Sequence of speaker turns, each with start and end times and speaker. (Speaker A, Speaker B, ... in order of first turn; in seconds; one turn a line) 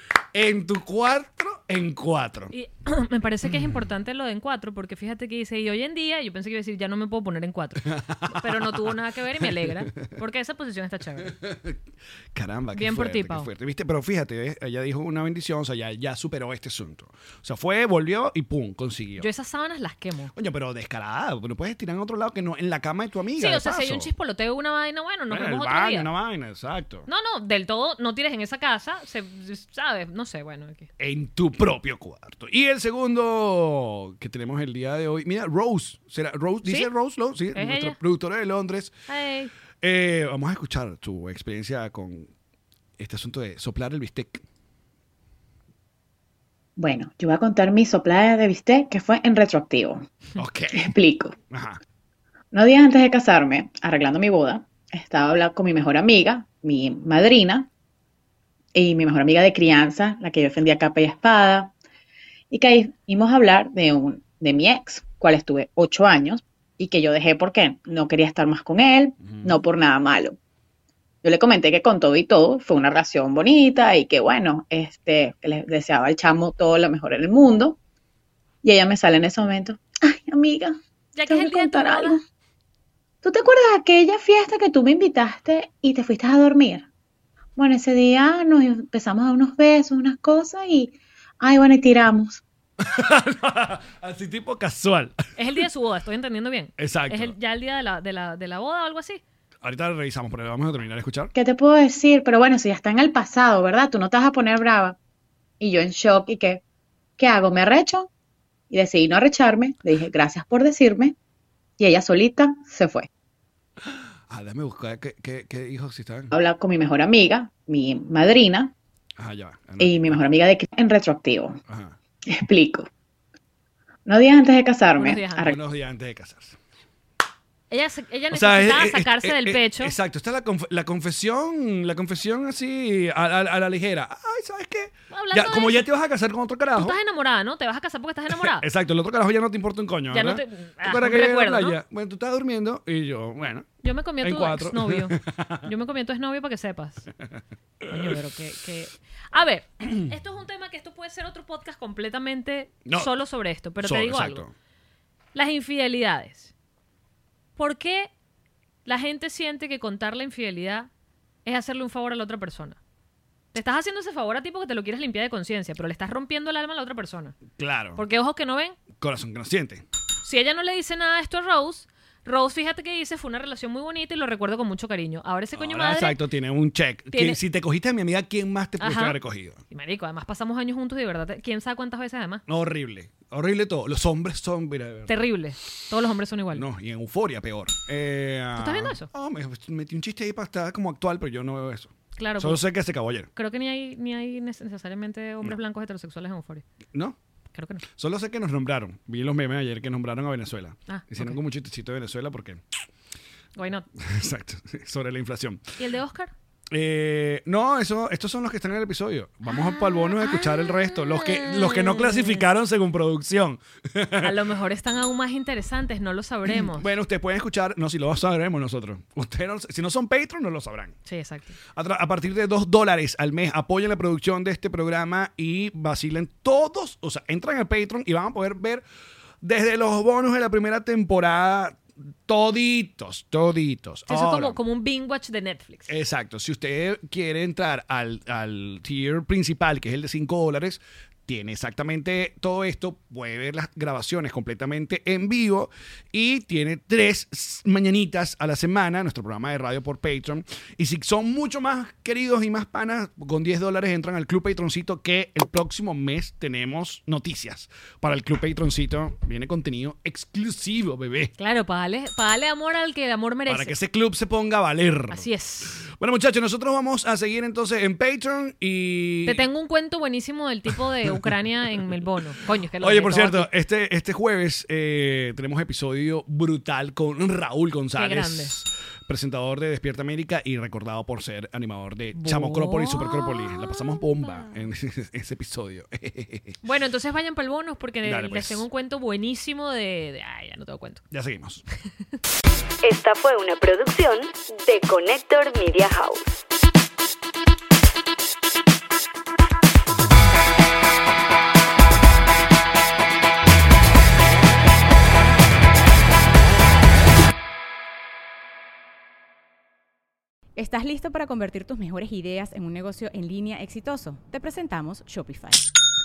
Speaker A: 0.3-2.5
Speaker B: 2.5-11.3
Speaker A: 3.4-3.8
Speaker A: 8.0-10.1
Speaker A: 11.2-11.8
Speaker A: 12.3-19.3
Speaker B: 12.7-13.5
Speaker B: 19.2-20.3
Speaker A: 20.4-24.1
Speaker B: 23.4-26.1
Speaker A: 25.3-27.1
Speaker B: 27.1-30.9
Speaker A: 31.0-39.0
Speaker B: 37.5-38.0
Speaker B: 39.1-39.5
Speaker A: 39.8-42.3
Speaker A: 43.0-44.4
Speaker C: 46.8-50.1
Speaker A: 50.4-50.9
Speaker C: 50.7-51.4
Speaker A: 51.5-51.8
Speaker C: 52.5-57.7
Speaker C: 58.8-61.7
Speaker C: 62.5-70.4
Speaker C: 71.2-77.8
Speaker C: 78.6-82.2
Speaker B: 81.2-82.2
Speaker C: 83.2-86.9
Speaker C: 87.6-92.4
Speaker A: 92.8-95.3
Speaker B: 95.4-99.2
Speaker A: 96.8-97.3
Speaker A: 99.6-101.3
Speaker C: 101.3-105.0
Speaker C: 105.6-106.6
Speaker C: 107.2-108.1
Speaker C: 108.7-111.2
Speaker C: 111.8-113.1
Speaker A: 113.8-116.3
Speaker C: 116.3-118.7
Speaker A: 119.2-120.2
Speaker C: 119.8-121.6
Speaker A: 121.7-122.0
Speaker C: 122.3-122.9
Speaker C: 124.1-125.6
Speaker B: 125.0-125.5
Speaker A: 125.4-126.6
Speaker B: 127.7-129.9
Speaker A: 128.3-137.0
Speaker B: 135.1-135.9
Speaker B: 136.8-138.7
Speaker A: 138.3-143.7
Speaker B: 140.1-141.8
Speaker B: 143.8-147.1
Speaker A: 144.2-145.7
Speaker A: 147.8-148.2
Speaker B: 147.9-154.5
Speaker A: 153.8-154.5
Speaker B: 155.3-156.5
Speaker B: 157.6-158.1
Speaker B: 158.9-160.9
Speaker B: 161.4-162.8
Speaker B: 163.5-167.4
Speaker A: 167.5-168.0
Speaker B: 168.0-168.8
Speaker A: 168.9-169.8
Speaker B: 170.2-176.2
Speaker A: 175.6-179.6
Speaker B: 177.1-177.4
Speaker B: 178.8-179.2
Speaker B: 179.7-182.4
Speaker A: 182.5-185.2
Speaker B: 185.1-186.7
Speaker A: 186.5-193.3
Speaker B: 188.6-189.1
Speaker B: 192.2-192.6
Speaker B: 193.4-196.7
Speaker B: 197.5-197.8
Speaker A: 197.9-202.6
Speaker B: 200.9-201.4
Speaker B: 203.6-203.9
Speaker A: 204.0-205.6
Speaker B: 205.8-206.3
Speaker A: 206.7-214.4
Speaker B: 209.5-212.4
Speaker B: 214.2-216.9
Speaker A: 216.5-221.0
Speaker B: 221.1-221.6
Speaker A: 221.7-228.8
Speaker A: 229.4-234.6
Speaker B: 234.1-235.9
Speaker A: 235.9-261.3
Speaker B: 261.4-263.8
Speaker A: 263.5-269.5
Speaker B: 265.1-265.9
Speaker B: 269.3-273.5
Speaker A: 272.8-286.6
Speaker B: 278.0-278.6
Speaker B: 282.1-284.5
Speaker B: 286.6-291.0
Speaker A: 288.0-288.7
Speaker A: 291.1-291.6
Speaker D: 292.8-296.4
Speaker E: 310.6-315.6